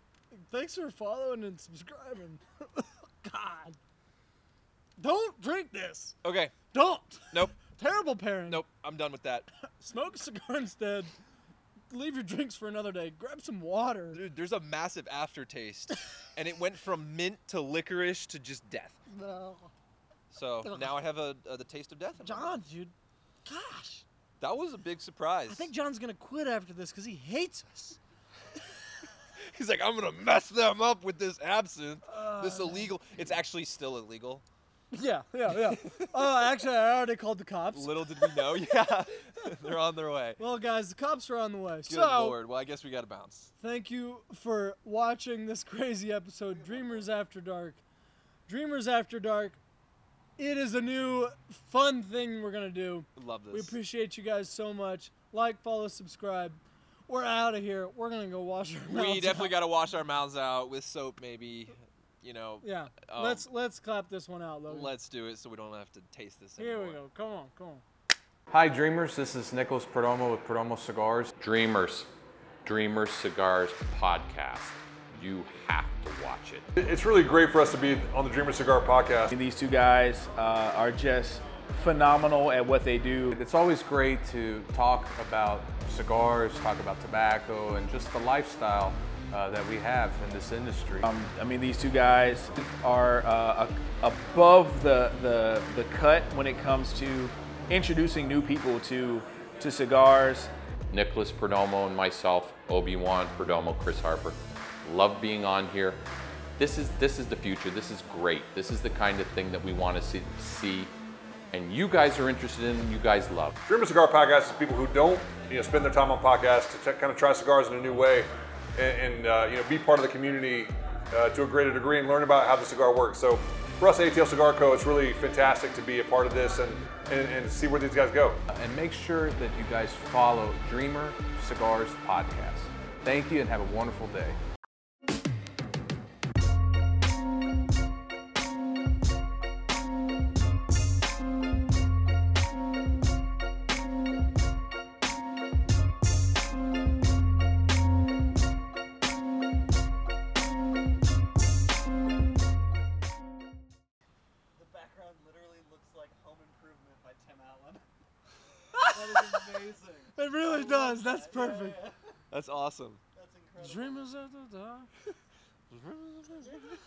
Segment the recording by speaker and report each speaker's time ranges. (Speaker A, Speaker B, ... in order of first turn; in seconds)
Speaker A: 0.3-3.8, 5.0-6.2, 6.7-8.6, 9.7-11.1, 11.9-14.2, 19.1-19.7, 20.6-21.0, 22.2-22.9, 23.4-24.0, 25.5-28.0, 32.0-32.9, 34.9-38.6, 40.4-42.4, 43.6-47.8, 48.5-49.6, 50.4-59.6, 62.6-64.9, 66.6-67.8, 158.7-159.5, 160.1-161.9, 163.6-164.9
Speaker B: 6.2-6.5, 7.3-7.6, 8.4-9.5, 14.1-19.0, 20.3-22.6, 24.4-25.7, 29.5-34.4, 35.5-36.5, 37.7-40.4, 41.9-43.5, 53.1-53.7, 58.9-63.5, 64.7-67.0, 162.3-163.0, 165.7-166.6
Speaker C: 46.5-47.1, 154.5-157.8, 158.8-162.1, 163.1-164.1
Speaker D: 68.5-71.3, 83.3-91.1, 128.5-134.4
Speaker E: 71.4-72.1, 72.6-76.7, 100.9-106.0, 106.6-110.9, 111.5-113.5
Speaker F: 76.8-79.3, 113.6-128.4
Speaker G: 79.3-83.4, 91.0-100.5